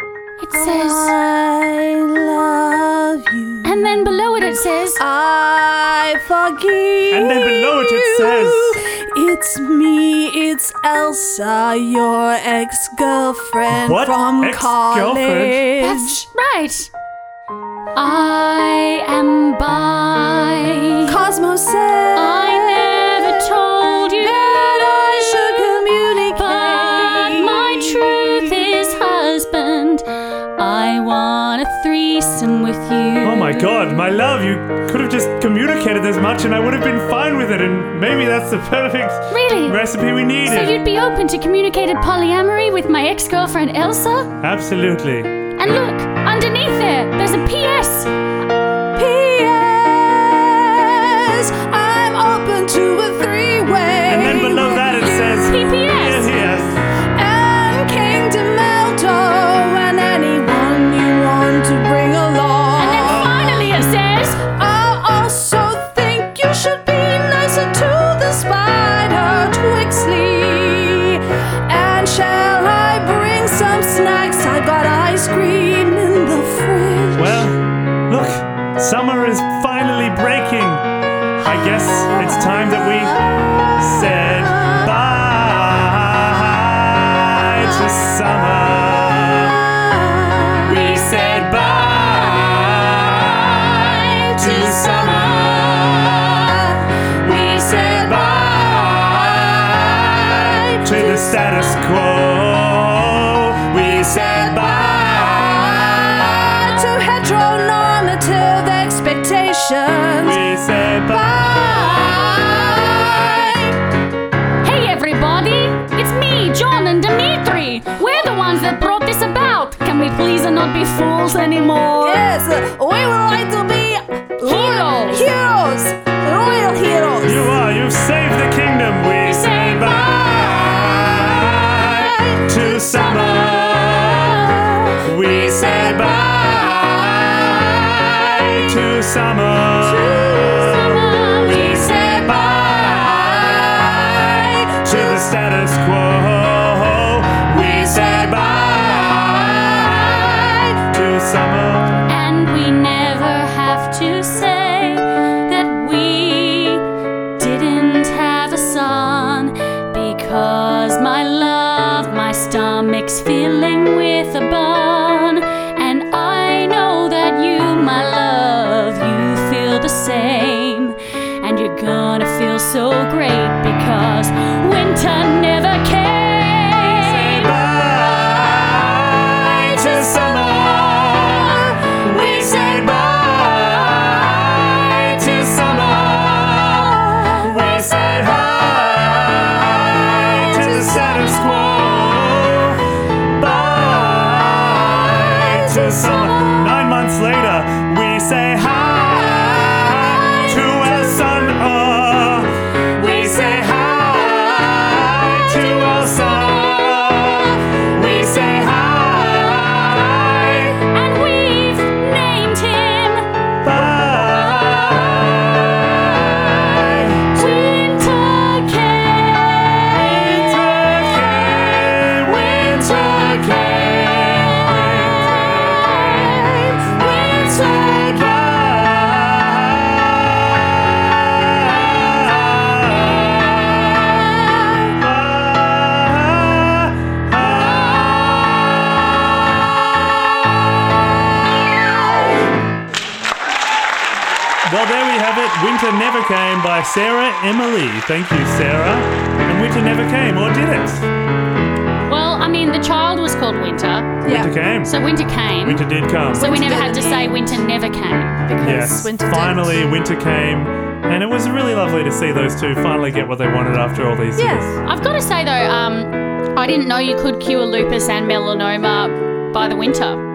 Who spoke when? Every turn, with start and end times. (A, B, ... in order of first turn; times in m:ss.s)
0:00.4-0:01.2 A
0:00.6-0:16.3 B
0:03.6-0:05.0 A
0:07.1-0:08.8 C
0:13.7-0:15.6 C
0:15.8-0:16.9 A
0:18.0-0:21.2 A
0:21.1-0:23.3 B
0:22.1-0:24.4 A
0:24.2-0:28.4 B
0:26.3-0:30.0 A
0:30.6-0:33.7 A
0:33.2-0:40.8 C
0:39.3-0:39.8 A
0:40.4-0:44.3 A
0:44.4-0:45.3 C
0:45.6-0:48.1 A
0:49.0-0:55.5 B
0:54.1-0:56.8 C
0:55.4-0:56.3 A
0:57.2-1:03.8 B
1:02.8-1:04.5 A
1:04.4-1:17.5 B
1:17.2-1:20.8 C
1:21.4-1:29.7 C
1:22.0-1:24.9 B
1:29.6-1:30.8 B
1:30.6-1:36.5 C
1:33.9-1:35.8 B
1:36.3-1:41.4 B
1:37.2-1:46.7 C
1:43.9-1:50.4 B
1:50.2-1:52.3 C
1:51.1-1:53.8 B
1:54.6-2:02.2 A
2:02.0-2:07.6 B
2:04.4-2:05.3 A
2:07.2-2:32.1 C
2:09.2-2:10.5 A
2:11.4-2:18.6 B
2:19.8-2:25.1 B
2:20.7-2:21.8 A
2:27.6-2:29.6 B
2:30.3-2:30.6 B
2:32.1-2:36.8 A
2:37.4-2:57.5 A
2:57.0-3:30.8 C
3:01.0-3:03.1 B
3:07.0-3:07.8 B
3:09.7-3:12.5 B
3:15.2-3:16.7 B
3:19.0-3:21.2 B
3:30.8-3:33.3 A
3:33.6-3:37.2 C
3:37.3-3:40.2 A
3:39.8-4:01.0 C
3:41.3-3:47.6 A
4:04.6-4:11.1 C
4:12.1-4:14.2 A
4:14.2-4:14.5 B
4:14.2-4:14.9 C
4:14.8-4:18.4 A
4:15.6-4:16.6 C
4:16.4-4:17.6 B
4:18.4-4:19.9 B
4:18.6-4:24.7 C
4:24.4-4:24.8 B
4:24.8-4:30.2 A